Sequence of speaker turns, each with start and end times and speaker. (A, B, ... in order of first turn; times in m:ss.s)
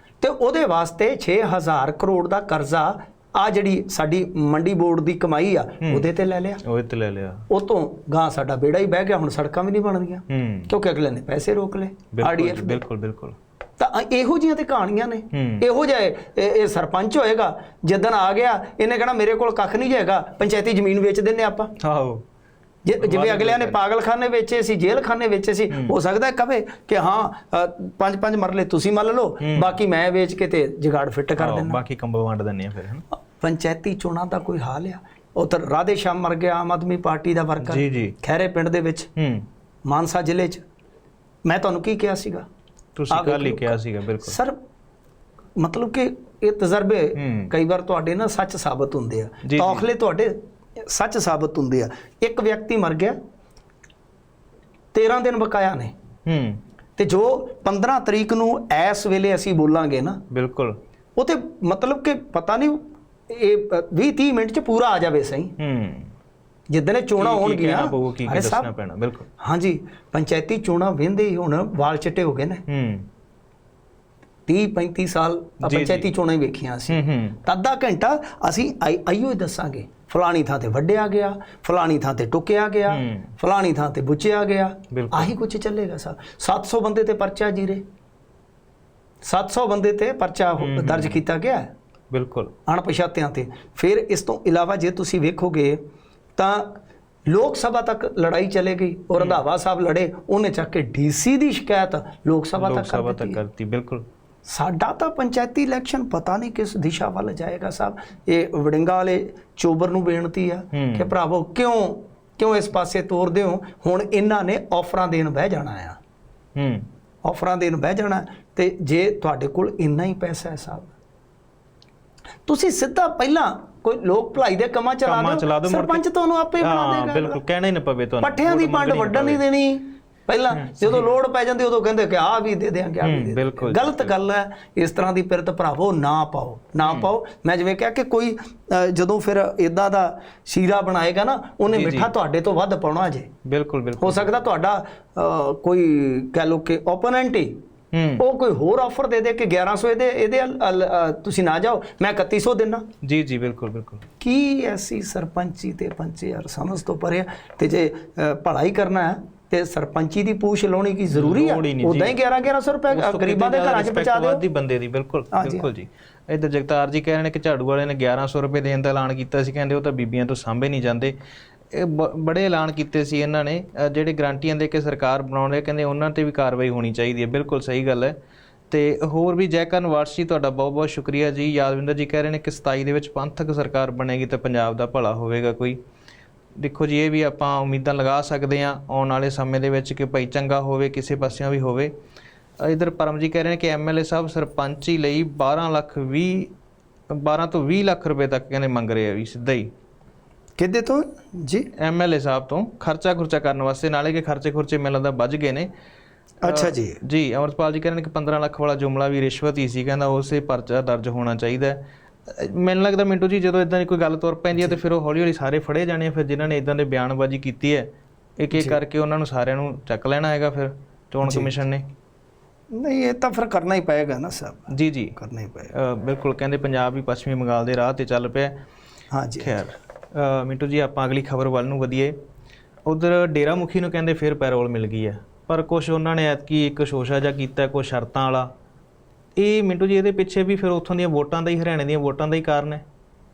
0:00.2-0:06.6 A
0:06.6-0:07.4 B
0:07.5-0:12.8 A
0:10.3-0:10.7 B
0:12.1-0:13.4 B
0:13.8-0:21.7 A
0:15.3-0:15.6 B
0:21.8-0:22.2 B
0:22.8-0:31.8 A
0:23.0-0:23.8 B
0:25.7-0:26.0 B
0:29.4-0:29.8 B
0:31.4-0:33.0 B
0:33.4-0:39.1 A
0:37.6-0:38.2 B
0:39.2-0:39.5 B
0:39.9-0:40.6 A
0:41.5-0:42.4 A
0:43.0-0:44.4 B
0:43.1-0:44.6 A
0:45.6-0:53.2 A
0:47.2-0:47.5 B
0:49.4-0:49.9 B
0:54.9-0:55.9 A
0:56.3-0:56.6 B
0:57.0-1:00.2 A
1:00.3-1:00.8 B
1:01.2-1:05.5 A
1:05.6-1:06.1 B
1:06.7-1:08.7 A
1:07.2-1:09.3 B
1:09.4-1:12.6 A
1:12.7-1:13.1 B
1:14.5-1:27.8 A
1:15.6-1:16.1 B
1:16.9-1:17.4 B
1:22.9-1:23.3 B
1:24.9-1:25.3 B
1:29.2-1:31.7 A
1:30.6-1:31.2 B
1:32.1-1:32.5 B
1:32.7-1:35.8 A
1:36.4-1:36.7 A
1:37.3-1:43.4 A
1:42.6-1:44.0 B
1:44.5-1:56.0 A
1:50.7-1:51.1 B
1:56.6-1:56.9 B
1:57.2-2:00.9 A
2:02.5-2:07.4 A
2:05.0-2:06.0 B
2:06.6-2:09.4 B
2:08.2-2:23.3 A
2:10.6-2:11.2 B
2:13.0-2:14.1 B
2:16.8-2:17.1 B
2:21.7-2:22.1 B
2:23.4-2:24.4 B
2:24.0-2:27.5 A
2:27.9-2:28.2 B
2:28.2-2:32.8 A
2:33.0-2:34.1 B
2:34.2-2:44.4 A
2:41.1-2:42.2 B
2:42.9-2:51.2 B
2:45.3-2:45.7 A
2:51.7-2:58.2 B
2:58.7-3:05.8 B
3:06.6-3:11.9 B
3:12.6-3:16.5 B
3:17.1-3:19.7 B
3:20.6-3:21.7 A
3:21.8-3:25.7 B
3:26.4-3:27.0 A
3:26.4-3:41.9 B
3:38.5-3:38.8 A
3:41.2-3:41.6 A
3:42.7-3:45.7 A
3:44.7-3:45.2 B
3:45.7-3:48.6 B
3:49.1-3:49.5 A
3:49.4-3:52.2 B
3:52.9-3:58.5 B
3:59.4-4:02.8 B